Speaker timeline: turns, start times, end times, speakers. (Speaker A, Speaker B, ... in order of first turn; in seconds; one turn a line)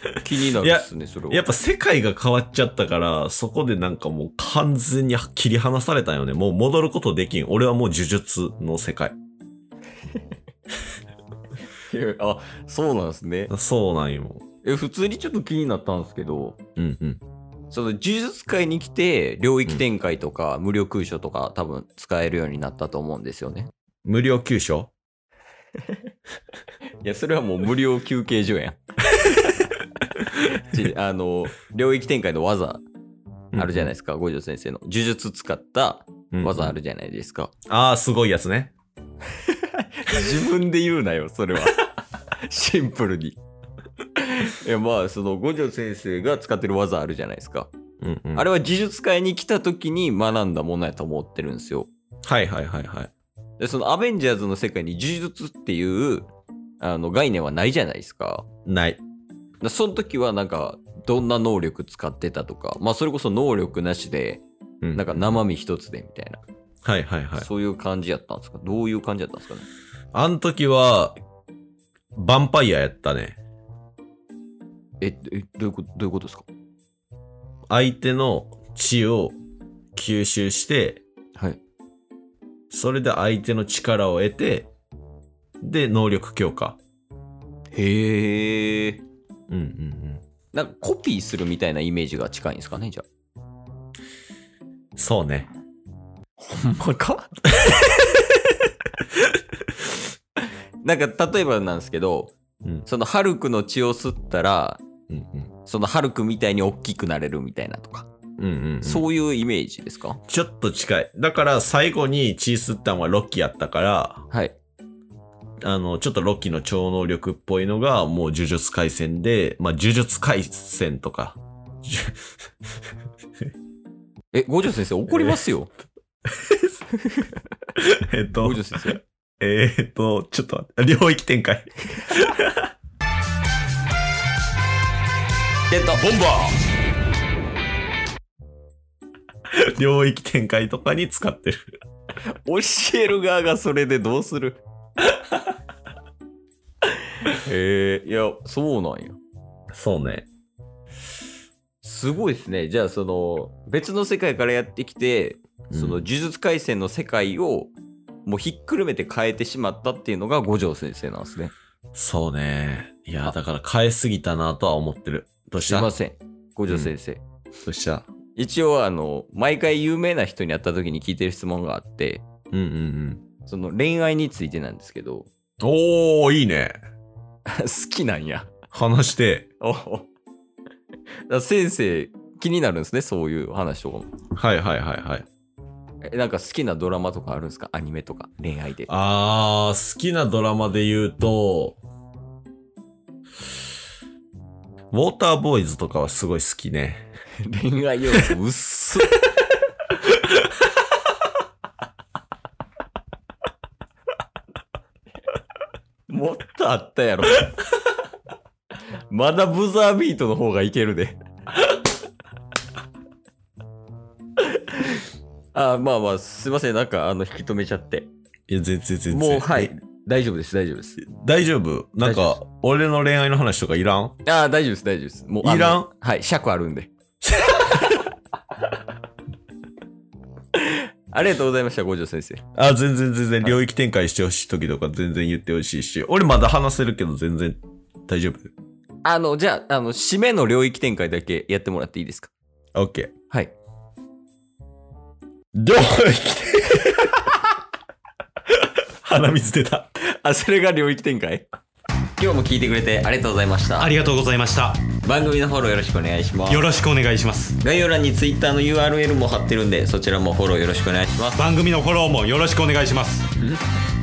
Speaker A: 0.2-1.5
Speaker B: 0.6-9.2
Speaker A: 11.7-13.5
Speaker B: 13.5-14.4
Speaker A: 14.6-16.6
Speaker B: 16.8-17.2
Speaker A: 17.7-23.7
Speaker B: 24.1-24.9
Speaker A: 27.0-32.8
Speaker B: 33.5-33.9
Speaker A: 33.5-37.5
Speaker B: 36.3-36.8
Speaker B: 37.7-38.7
Speaker A: 39.4-43.4
Speaker A: 44.2-47.7
Speaker B: 48.0-48.5
Speaker A: 48.4-51.9
Speaker B: 52.2-53.1
Speaker A: 53.6-58.5
Speaker B: 58.6-59.0
Speaker A: 59.6-64.4
Speaker B: 64.8-65.4
Speaker A: 65.0-66.4
Speaker B: 66.8-67.5
Speaker A: 67.4-69.7
Speaker B: 70.1-71.2
Speaker B: 72.2-73.4
Speaker A: 75.0-76.5
Speaker B: 77.7-79.4
Speaker B: 80.0-81.0
Speaker B: 82.7-84.7
Speaker B: 85.6-86.8
Speaker A: 87.7-89.0
Speaker B: 89.5-90.2
Speaker A: 90.5-93.0
Speaker B: 95.0-95.5
Speaker A: 96.4-98.1
Speaker A: 100.8-102.3
Speaker A: 102.9-104.8
Speaker B: 105.1-105.5
Speaker A: 105.7-108.1
Speaker B: 108.4-109.1
Speaker A: 108.8-110.2
Speaker B: 110.3-114.2
Speaker A: 114.3-114.6
Speaker B: 115.6-122.3
Speaker A: 124.3-125.7
Speaker B: 126.3-126.7
Speaker A: 126.9-127.4
Speaker B: 127.8-132.7
Speaker A: 128.4-129.0
Speaker A: 135.7-136.4
Speaker C: 136.0-136.5
Speaker B: 139.5-141.6
Speaker A: 142.3-144.6
Speaker A: 145.1-145.4
Speaker A: 147.2-149.2
Speaker B: 149.7-150.3
Speaker A: 151.8-157.7
Speaker B: 155.7-156.0
Speaker A: 158.3-161.5
Speaker B: 161.9-165.9
Speaker A: 165.6-167.2
Speaker B: 167.7-168.1
Speaker A: 168.4-172.2
Speaker B: 172.5-173.2
Speaker A: 173.5-175.3
Speaker B: 175.6-176.8
Speaker A: 177.5-178.5
Speaker B: 178.7-179.5
Speaker A: 179.6-180.1
Speaker A: 181.3-184.1
Speaker B: 184.3-185.3
Speaker A: 186.1-188.9
Speaker B: 188.9-191.8
Speaker B: 194.9-197.1
Speaker A: 197.4-199.2
Speaker A: 206.1-207.6
Speaker A: 209.1-211.2
Speaker A: 214.4-218.1
Speaker B: 218.5-219.7
Speaker A: 219.1-221.0
Speaker B: 221.0-224.2
Speaker A: 222.0-222.4
Speaker A: 224.2-226.9
Speaker B: 225.4-225.9
Speaker B: 227.2-227.9
Speaker A: 230.6-232.4
Speaker B: 232.6-238.5
Speaker A: 239.0-242.3
Speaker B: 242.8-243.1
Speaker A: 243.3-243.6
Speaker B: 245.6-247.2
Speaker B: 248.5-249.9
Speaker A: 250.0-251.4
Speaker A: 252.2-253.9
Speaker C: 253.8-254.9
Speaker A: 255.0-256.7
Speaker C: 256.5-257.6
Speaker A: 257.6-261.4
Speaker C: 261.4-263.3